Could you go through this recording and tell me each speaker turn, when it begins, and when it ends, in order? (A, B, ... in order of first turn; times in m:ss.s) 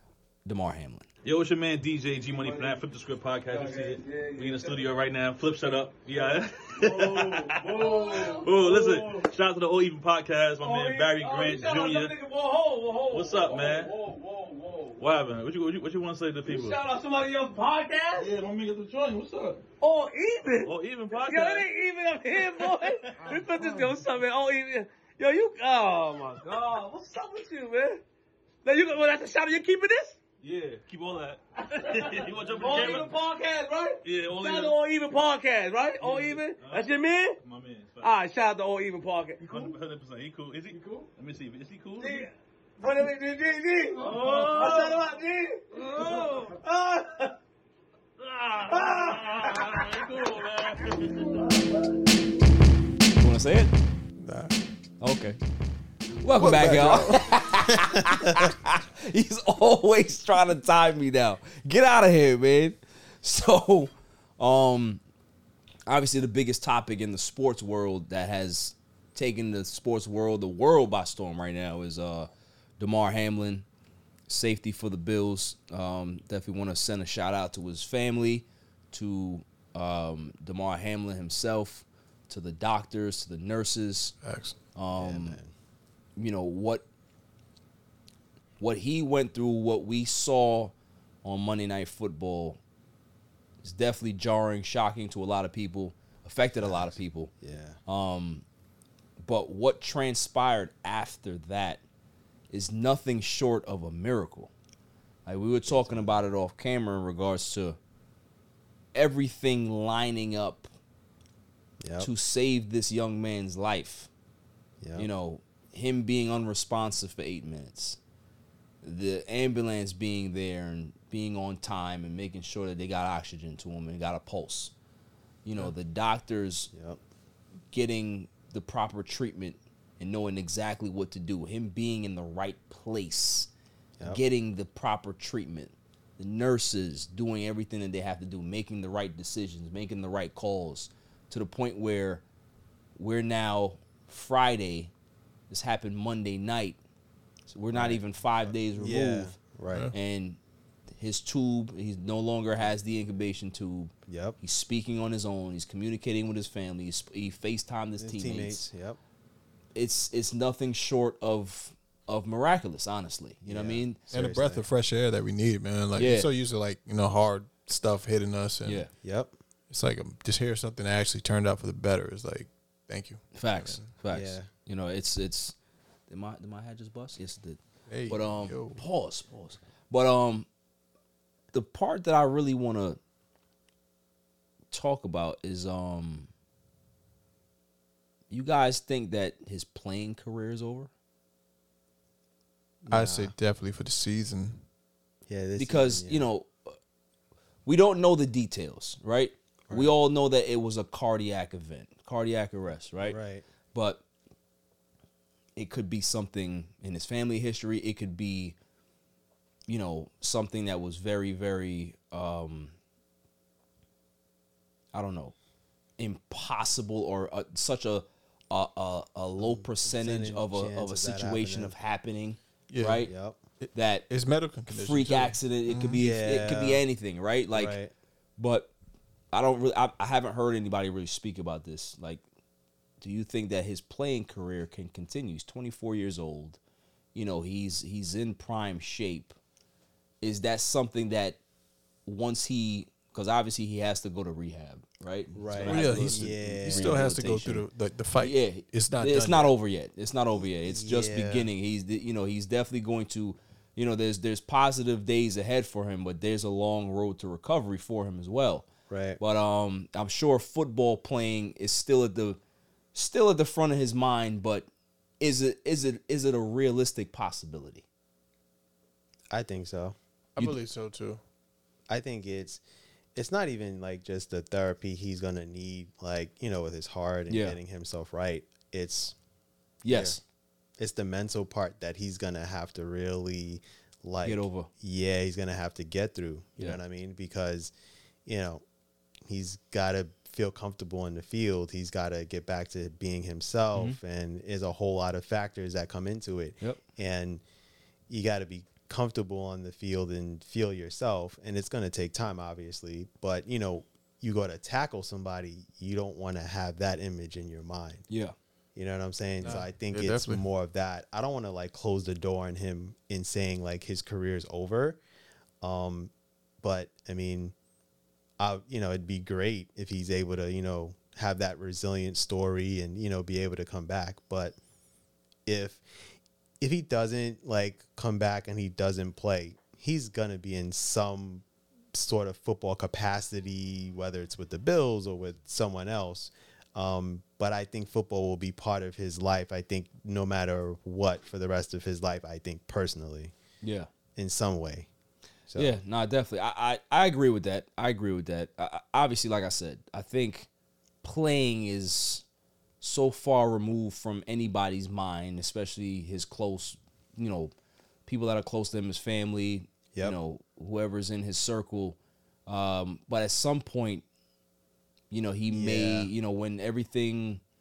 0:00.4-0:01.1 A
0:01.2-0:12.1 B
0:02.2-0:02.8 C
0:03.5-0:04.9 C
0:06.1-0:09.3 C
0:10.6-0:15.3 C
0:13.1-0:13.9 B
0:15.0-0:16.8 B
0:16.4-0:18.3 C
0:18.2-0:19.6 B
0:19.8-0:28.0 C
0:20.6-0:21.7 B
0:22.3-0:24.0 B
0:28.6-0:30.2 C
0:30.4-0:33.2 B
0:31.6-0:37.4 C
0:34.0-0:34.8 B
0:36.0-0:36.9 B
0:37.4-0:38.1 B
0:38.0-0:39.8 C
0:39.4-0:42.3 B
0:40.7-0:41.0 C
0:42.0-0:47.3 C
0:44.0-0:45.0 B
0:45.8-0:46.6 B
0:48.2-0:51.4 B
0:48.6-0:51.9 C
0:53.2-0:53.7 A
0:54.2-0:54.5 D
0:55.0-0:55.4 A
0:56.2-1:05.0 A
0:56.4-0:57.2 D
1:05.9-1:13.6 A
1:14.3-1:24.1 A
1:24.2-1:24.5 D
1:24.7-1:25.4 A
1:25.0-1:25.5 E
1:26.2-1:26.8 A
1:28.6-1:30.7 A
1:31.2-1:32.6 A
1:33.6-1:37.3 A
1:36.6-1:37.8 E
1:37.8-1:38.4 A
1:39.2-1:41.8 A
1:42.5-1:44.5 A
1:45.2-1:47.8 A
1:45.7-1:46.3 E
1:48.9-1:50.7 A
1:51.8-1:52.1 E
1:52.0-1:54.1 A
1:54.8-1:55.1 E
1:55.0-1:58.0 A
1:58.8-2:04.7 A
2:05.4-2:06.7 A
2:06.7-2:07.0 E
2:07.7-2:13.5 A
2:14.0-2:22.2 A
2:23.0-2:24.9 A
2:25.5-2:26.8 A
2:27.5-2:29.4 A
2:27.7-2:29.9 E
2:29.9-2:30.4 A
2:30.9-2:38.6 A
2:34.1-2:34.4 E
2:38.0-2:39.0 E
2:39.7-2:44.0 A
2:43.4-2:44.6 E
2:44.1-2:48.8 D
2:46.0-2:46.3 A
2:48.6-2:48.9 A
2:49.0-2:49.3 E
2:49.7-2:53.9 D
2:53.3-2:55.5 A
2:54.1-2:54.5 E
2:56.1-3:00.4 A
2:57.9-2:58.8 D
3:01.5-3:03.0 A
3:04.7-3:06.3 A
3:08.3-3:10.9 A
3:12.8-3:13.3 E
3:12.9-3:14.6 D
3:15.3-3:16.3 E
3:15.6-3:16.7 A
3:17.6-3:23.2 A
3:23.0-3:23.4 E
3:23.7-3:24.0 A
3:25.6-3:28.5 A
3:29.7-3:32.7 A
3:34.9-3:35.3 A
3:36.0-3:43.1 A
3:39.4-3:41.7 E
3:42.7-3:43.1 D
3:43.0-3:43.4 E
3:43.6-3:46.0 D
3:43.7-3:44.1 A
3:44.7-3:47.8 A
3:46.0-3:46.8 E
3:47.5-3:47.9 E
3:48.4-3:48.7 A
3:49.3-3:52.2 A
3:53.0-3:56.6 A
3:57.1-3:59.3 A
4:00.2-4:01.4 A
4:02.0-4:07.6 A
4:05.3-4:07.4 E
4:05.6-4:09.5 D
4:08.2-4:18.7 A
4:10.4-4:11.5 E
4:18.9-4:19.2 E
4:19.2-4:22.4 A
4:22.9-4:24.7 A
4:25.2-4:27.8 A
4:29.3-4:30.0 E
4:30.4-4:31.2 D
4:31.9-4:32.6 E
4:33.1-4:39.1 E
4:37.3-4:37.6 A
4:39.8-4:40.2 A
4:39.8-4:40.2 E
4:40.8-4:47.7 E
4:44.2-4:44.7 A
4:48.2-4:48.6 E
4:49.2-4:57.4 E
4:58.1-5:08.0 E
5:08.1-5:08.3 A
5:08.7-5:15.0 E
5:09.4-5:10.4 D
5:15.6-5:17.5 E
5:18.4-5:24.6 E
5:25.4-5:25.8 E
5:26.6-5:43.3 E
5:43.6-5:43.9 A
5:44.2-5:44.9 E
5:45.5-5:45.8 E
5:45.6-5:50.5 A
5:51.0-5:52.2 A
5:52.8-5:57.5 A
5:58.0-6:04.0 A
6:05.1-6:07.4 A
6:05.5-6:06.1 E